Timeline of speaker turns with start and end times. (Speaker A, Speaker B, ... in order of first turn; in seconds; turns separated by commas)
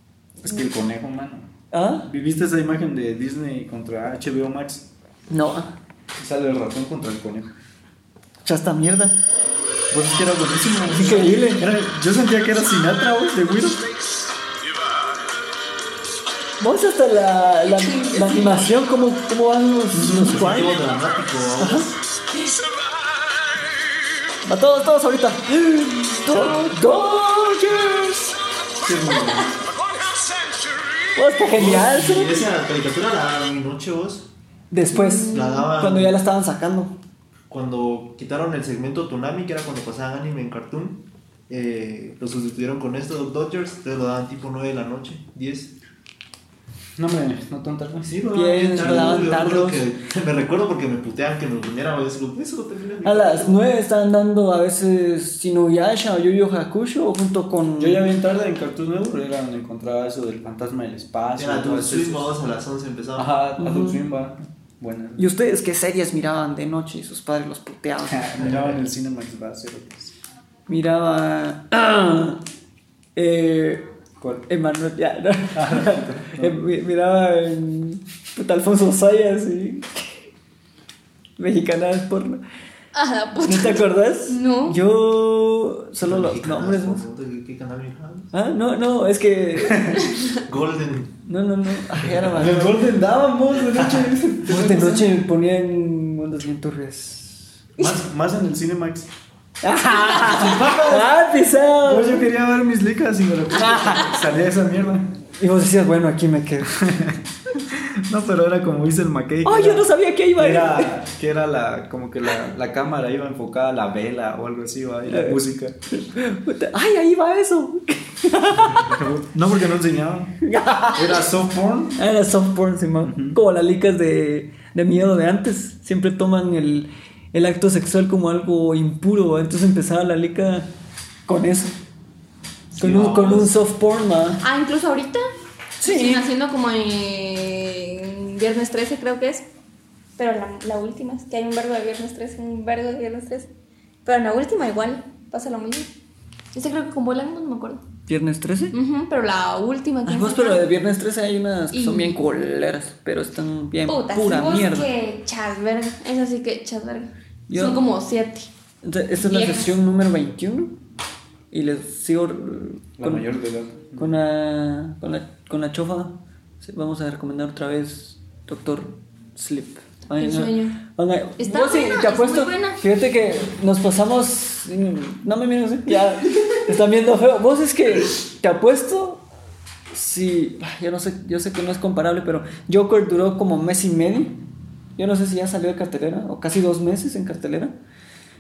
Speaker A: 0.4-1.5, Speaker B: 1.7-2.1, Speaker A: 2.0-4.9, Speaker B: 5.3-5.7, Speaker A: 6.2-7.5, Speaker B: 8.4-9.2, Speaker A: 9.9-13.9, Speaker B: 10.9-11.7, Speaker B: 16.6-20.9, Speaker A: 19.9-20.5, Speaker C: 20.2-21.9, Speaker B: 21.6-21.9, Speaker B: 24.4-28.4, Speaker A: 28.8-29.5, Speaker B: 31.1-32.4, Speaker C: 31.5-34.3, Speaker B: 34.7-36.9, Speaker D: 34.9-35.7, Speaker C: 35.3-36.1, Speaker C: 37.5-45.7, Speaker A: 47.0-48.2, Speaker C: 48.0-53.6, Speaker B: 48.3-49.9, Speaker A: 48.7-49.4, Speaker B: 53.0-58.0, Speaker A: 57.8-62.3, Speaker C: 61.3-63.3, Speaker A: 63.1-65.2, Speaker B: 63.6-64.0, Speaker B: 65.2-68.7, Speaker A: 68.1-70.1, Speaker B: 70.7-72.4, Speaker B: 73.1-73.8, Speaker A: 74.2-74.5, Speaker B: 74.5-80.1, Speaker A: 75.5-76.6, Speaker B: 81.4-82.4, Speaker D: 82.9-84.8, Speaker B: 83.4-87.0, Speaker C: 86.0-88.3, Speaker B: 88.3-90.0, Speaker A: 89.7-90.0, Speaker C: 90.3-91.2, Speaker B: 91.2-92.8, Speaker C: 92.0-92.2, Speaker A: 92.3-95.2, Speaker C: 93.8-94.1, Speaker B: 94.5-97.5, Speaker A: 97.8-99.1, Speaker B: 99.6-102.3, Speaker A: 100.0-101.1, Speaker A: 101.8-105.1, Speaker B: 103.6-104.1, Speaker B: 105.4-106.7, Speaker A: 106.7-115.8, Speaker B: 109.4-111.0, Speaker B: 115.1-119.0, Speaker A: 118.7-120.4, Speaker B: 120.4-121.2, Speaker A: 120.9-122.0, Speaker B: 122.0-130.7, Speaker A: 123.0-123.4, Speaker B: 131.3-131.7, Speaker C: 132.8-133.5, Speaker B: 132.8-134.4, Speaker D: 134.4-135.2, Speaker B: 135.8-136.2, Speaker D: 135.8-139.5, Speaker D: 140.2-143.5, Speaker D: 144.0-145.9, Speaker D: 146.5-147.8, Speaker B: 148.1-148.7, Speaker D: 148.7-150.6, Speaker B: 150.1-154.9, Speaker D: 151.7-152.2, Speaker D: 153.9-158.5, Speaker B: 157.5-157.8, Speaker B: 158.8-160.8, Speaker D: 159.2-159.8, Speaker B: 161.5-163.3, Speaker A: 163.0-164.1, Speaker B: 163.9-179.2, Speaker D: 170.2-170.8, Speaker D: 171.4-172.8, Speaker B: 179.9-184.3, Speaker B: 185.0-187.7